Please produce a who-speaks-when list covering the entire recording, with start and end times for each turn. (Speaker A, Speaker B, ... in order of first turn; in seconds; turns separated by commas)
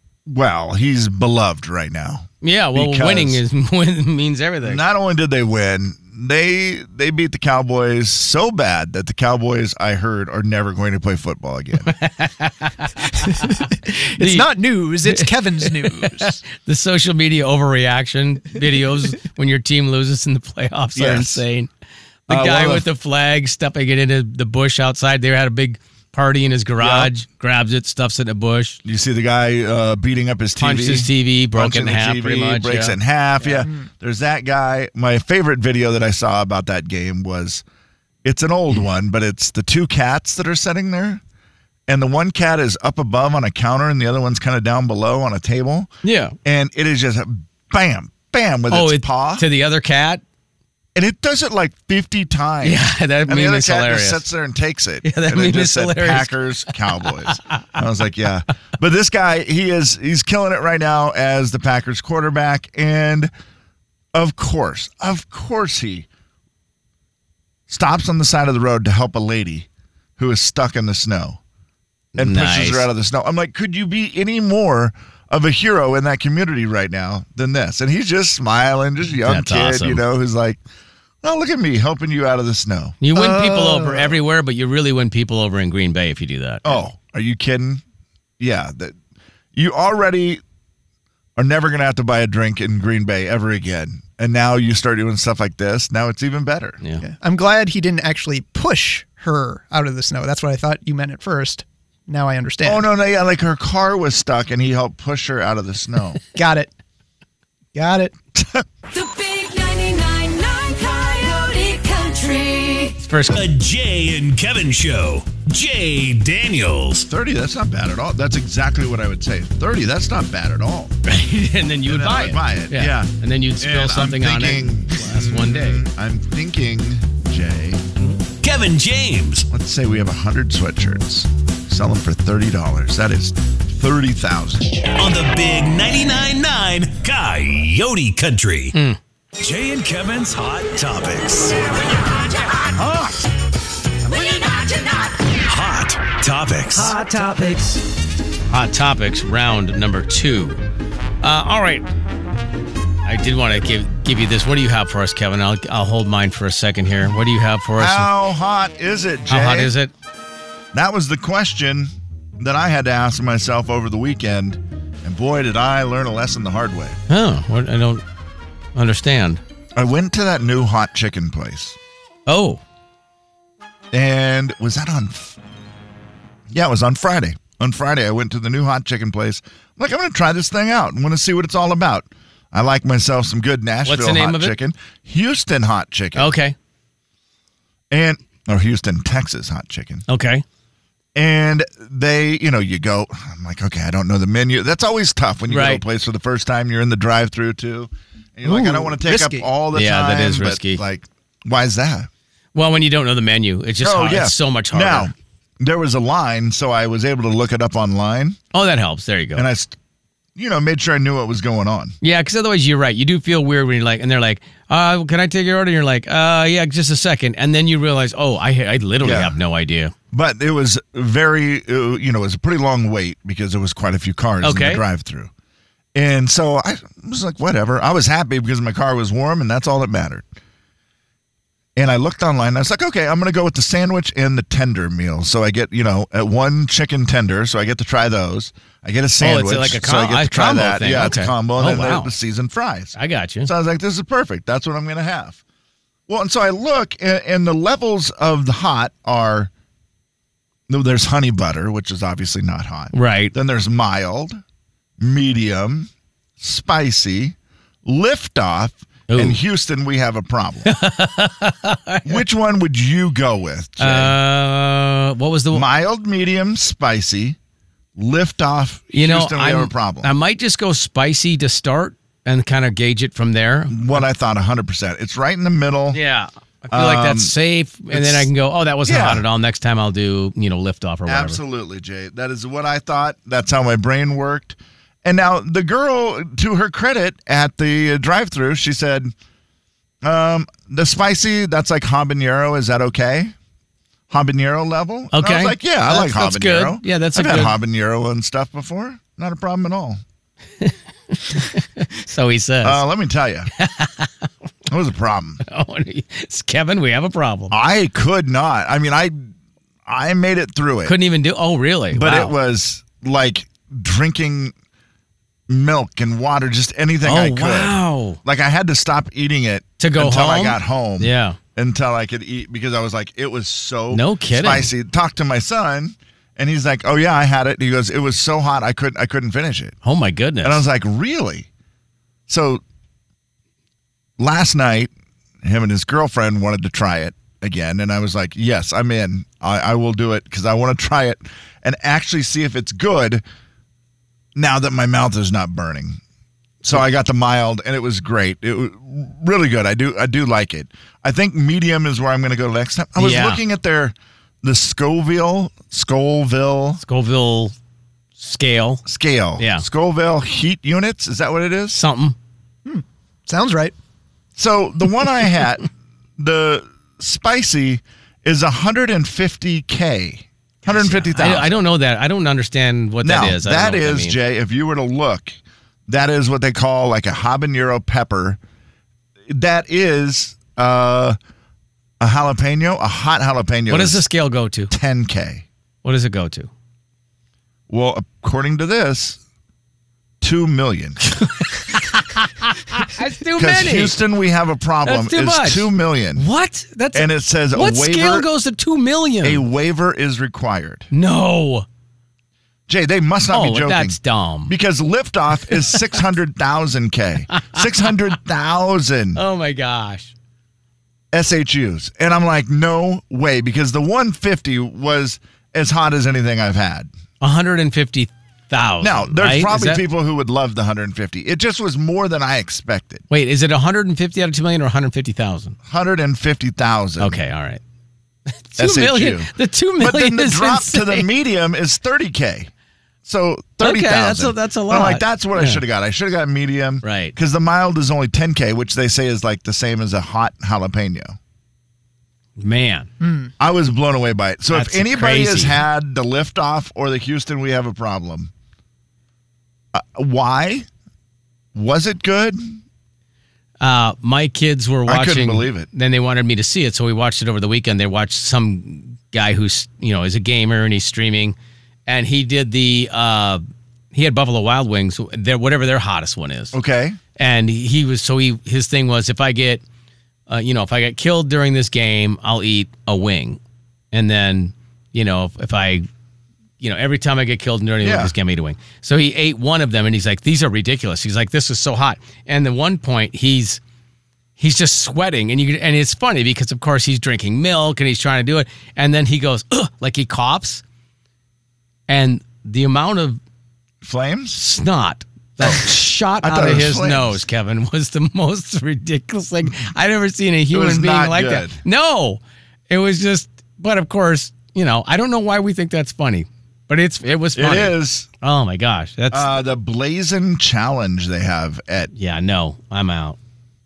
Speaker A: 0.3-3.4, Speaker B: 2.4-4.8, Speaker A: 4.6-11.9, Speaker B: 11.9-14.5, Speaker C: 13.2-16.4, Speaker B: 15.1-21.7, Speaker A: 20.9-21.4, Speaker B: 22.3-28.8, Speaker A: 22.3-22.9, Speaker A: 26.8-27.1, Speaker A: 28.8-37.6, Speaker B: 30.6-33.6, Speaker A: 38.2-41.2, Speaker A: 41.9-45.9, Speaker B: 46.0-46.4, Speaker A: 46.5-49.5, Speaker B: 48.7-50.2, Speaker A: 51.0-63.3, Speaker B: 52.6-54.3, Speaker B: 55.0-57.7, Speaker A: 64.1-66.1, Speaker A: 67.7-71.4, Speaker B: 72.2-72.9, Speaker A: 72.2-80.6, Speaker B: 79.2-80.0, Speaker A: 81.2-83.0, Speaker B: 83.0-86.8, Speaker C: 83.1-84.2, Speaker A: 86.6-87.8, Speaker A: 88.4-89.0, Speaker A: 89.5-90.4, Speaker A: 91.4-96.8, Speaker C: 97.0-102.9, Speaker A: 102.6-106.2, Speaker C: 106.3-106.7, Speaker C: 107.8-108.2, Speaker A: 108.3-108.7, Speaker D: 108.9-113.0, Speaker B: 113.0-113.4, Speaker E: 113.3-117.1, Speaker A: 117.0-121.0, Speaker B: 121.0-125.8, Speaker A: 121.8-127.8, Speaker E: 128.4-129.5, Speaker A: 129.5-134.8, Speaker E: 134.9-138.7, Speaker E: 139.4-141.7, Speaker E: 142.7-143.2, Speaker D: 144.1-145.1, Speaker E: 145.4-147.8, Speaker B: 148.5-150.6, Speaker B: 151.2-151.9, Speaker B: 153.1-158.1, Speaker A: 157.8-159.7, Speaker B: 159.3-159.9, Speaker A: 160.7-167.0, Speaker B: 167.1-168.0, Speaker B: 168.8-169.4, Speaker A: 169.8-171.8, Speaker B: 172.3-172.6, Speaker A: 173.9-175.4, Speaker A: 176.5-186.4, Speaker B: 183.8-184.6, Speaker B: 186.2-186.6, Speaker A: 187.9-190.1, Speaker B: 190.1-190.4, Speaker A: 191.2-202.1, Speaker B: 195.5-195.8, Speaker C: 198.4-199.5, Speaker B: 199.7-200.8, Speaker B: 202.6-205.1, Speaker A: 203.8-208.4, Speaker B: 208.5-209.5, Speaker A: 209.4-209.8, Speaker A: 210.4-212.0, Speaker B: 212.0-219.9, Speaker A: 219.0-219.4, Speaker A: 220.1-225.3, Speaker B: 224.4-224.8, Speaker A: 225.9-230.3, Speaker A: 231.8-245.4, Speaker B: 239.2-242.1, Speaker B: 243.0-243.5, Speaker A: 246.1-249.5, Speaker A: 250.7-254.4, Speaker B: 252.9-253.3, Speaker A: 255.0-260.8, Speaker B: 259.1-259.4, Speaker B: 260.6-262.2, Speaker A: 262.0-264.2, Speaker B: 263.8-265.7, Speaker A: 265.5-267.4, Speaker A: 268.0-270.1, Speaker B: 268.9-274.0, Speaker A: 273.7-276.0, Speaker B: 275.9-281.4, Speaker A: 276.7-277.3, Speaker A: 277.9-278.3, Speaker A: 278.9-279.3, Speaker A: 281.1-289.1, Speaker A: 290.0-293.4, Speaker A: 294.1-300.0, Speaker B: 295.1-297.6, Speaker B: 300.6-302.8, Speaker A: 302.6-303.5, Speaker B: 303.6-304.3, Speaker A: 304.7-305.4, Speaker B: 305.4-307.6, Speaker A: 307.5-309.3, Speaker A: 309.9-311.0, Speaker B: 310.9-312.3, Speaker A: 311.9-314.5, Speaker A: 315.5-329.8, Speaker B: 317.0-318.2, Speaker B: 319.8-321.4, Speaker B: 323.9-324.7, Speaker B: 329.8-330.6, Speaker A: 330.4-331.5, Speaker A: 332.3-332.6, Speaker A: 334.2-334.9, Speaker A: 335.4-343.2, Speaker A: 344.4-346.0, Speaker A: 346.6-356.8, Speaker B: 353.0-353.4, Speaker B: 356.8-357.5, Speaker B: 358.2-358.9, Speaker A: 358.9-361.8, Speaker B: 359.4-359.6, Speaker B: 361.7-362.2, Speaker C: 362.6-363.8, Speaker A: 364.4-371.6, Speaker B: 370.6-374.2, Speaker A: 373.0-375.4, Speaker A: 375.9-378.4, Speaker A: 379.3-381.2, Speaker A: 382.0-384.0, Speaker B: 383.7-384.7, Speaker A: 384.7-385.5, Speaker B: 385.8-386.5, Speaker A: 387.7-389.2, Speaker A: 390.2-391.0, Speaker B: 391.2-394.0, Speaker A: 393.3-396.3, Speaker B: 394.8-399.4, Speaker A: 396.9-398.3, Speaker A: 399.2-400.9, Speaker B: 400.9-401.7, Speaker A: 402.7-409.2, Speaker B: 403.3-404.5, Speaker B: 409.1-410.1, Speaker A: 411.1-416.9, Speaker B: 417.2-419.8, Speaker A: 418.8-423.1, Speaker B: 423.1-425.6, Speaker A: 425.7-427.2, Speaker B: 427.0-427.6, Speaker B: 428.3-431.1, Speaker A: 428.6-432.5, Speaker A: 433.1-441.2, Speaker B: 433.6-435.6, Speaker B: 436.8-437.2, Speaker B: 442.4-442.9, Speaker C: 443.0-443.3, Speaker A: 443.4-448.3, Speaker B: 444.5-445.6, Speaker A: 449.7-450.7, Speaker A: 451.5-452.6, Speaker B: 453.6-461.4, Speaker A: 454.9-455.7, Speaker B: 461.9-466.6, Speaker A: 466.5-467.0, Speaker B: 467.2-469.6, Speaker B: 470.3-473.4, Speaker B: 473.9-475.9, Speaker B: 476.6-483.6, Speaker A: 477.8-478.1, Speaker B: 484.4-490.6, Speaker B: 491.9-493.2, Speaker A: 493.8-494.4, Speaker B: 494.3-509.3, Speaker A: 495.4-497.2, Speaker A: 500.5-501.6, Speaker A: 507.4-508.1, Speaker A: 509.1-511.9, Speaker B: 511.9-513.2